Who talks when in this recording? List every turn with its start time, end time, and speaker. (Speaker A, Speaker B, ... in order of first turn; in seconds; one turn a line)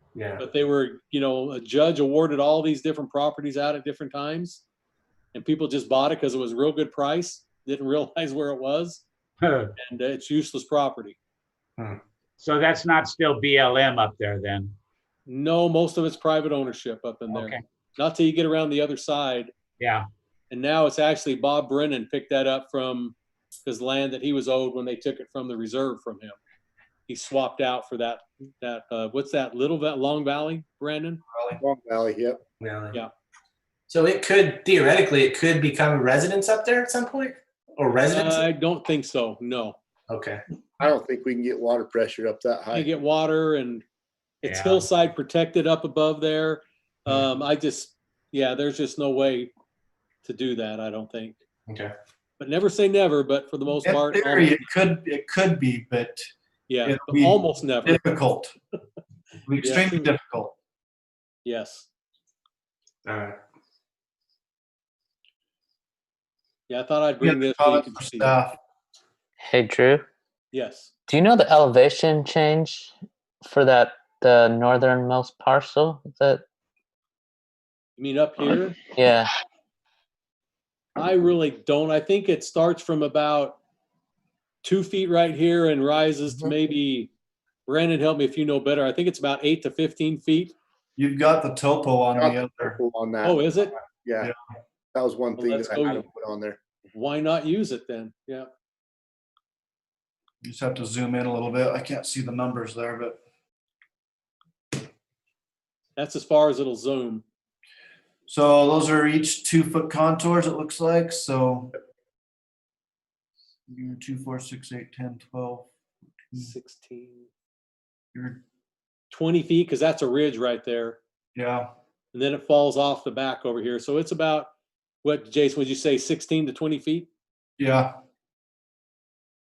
Speaker A: 0.1-0.4
Speaker B: 0.4-4.6
Speaker B: 5.3-9.0
Speaker C: 9.4-9.7
Speaker B: 9.8-11.2
Speaker C: 12.4-14.7
Speaker B: 15.3-19.5
Speaker C: 17.3-17.6
Speaker C: 19.8-20.1
Speaker B: 20.5-26.4
Speaker B: 27.1-31.2
Speaker D: 31.3-31.6
Speaker E: 31.6-32.4
Speaker A: 32.6-33.0
Speaker A: 33.9-38.5
Speaker B: 38.1-39.8
Speaker A: 40.1-40.4
Speaker E: 40.8-42.9
Speaker B: 42.7-43.8
Speaker B: 44.4-49.5
Speaker C: 44.5-44.9
Speaker B: 50.2-51.4
Speaker A: 51.7-51.9
Speaker B: 52.4-54.7
Speaker D: 53.8-56.3
Speaker B: 56.7-58.0
Speaker D: 56.8-58.5
Speaker D: 59.4-60.5
Speaker B: 59.6-60.1
Speaker B: 61.4-61.9
Speaker A: 63.0-63.4
Speaker B: 66.7-68.4
Speaker D: 67.2-68.6
Speaker F: 69.4-70.0
Speaker B: 70.5-70.9
Speaker F: 71.1-72.9
Speaker F: 73.4-76.4
Speaker B: 78.0-78.8
Speaker F: 78.9-79.3
Speaker B: 81.0-83.6
Speaker B: 84.6-87.1
Speaker B: 87.7-90.5
Speaker D: 91.0-92.8
Speaker E: 92.2-94.3
Speaker B: 93.2-93.7
Speaker E: 94.9-96.6
Speaker B: 95.4-96.1
Speaker B: 96.9-98.5
Speaker D: 100.4-103.2
Speaker B: 106.0-107.2
Speaker D: 108.3-111.7
Speaker D: 113.7-115.7
Speaker B: 116.3-117.3
Speaker D: 118.1-118.4
Speaker B: 119.1-121.0
Speaker D: 121.3-121.7
Speaker B: 122.1-124.5
Speaker B: 125.0-127.1
Speaker D: 127.6-127.9